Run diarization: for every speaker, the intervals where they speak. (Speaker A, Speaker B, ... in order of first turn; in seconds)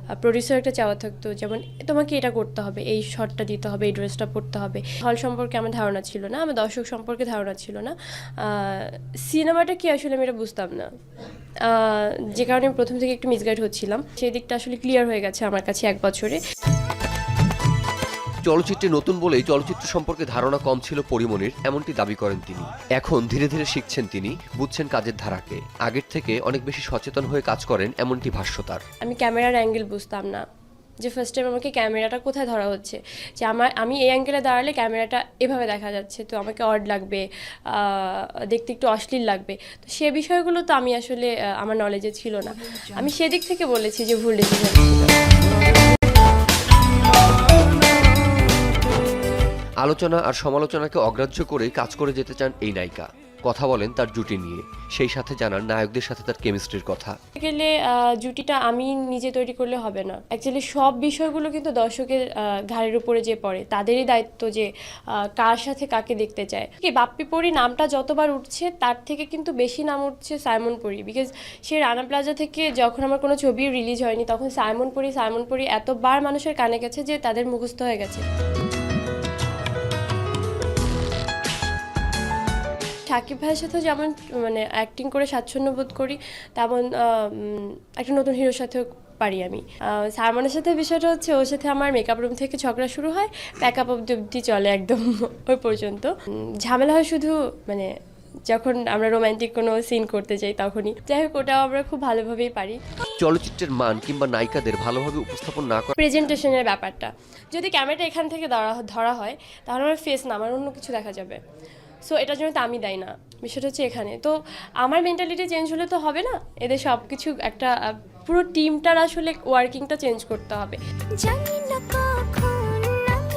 Speaker A: 0.2-10.9, 11.7-16.4, 29.0-30.4, 31.0-45.3, 57.4-78.2, 83.1-97.9, 98.5-102.8, 106.0-111.4, 112.0-123.1
Speaker B: 18.4-28.8, 49.8-57.2, 103.2-105.9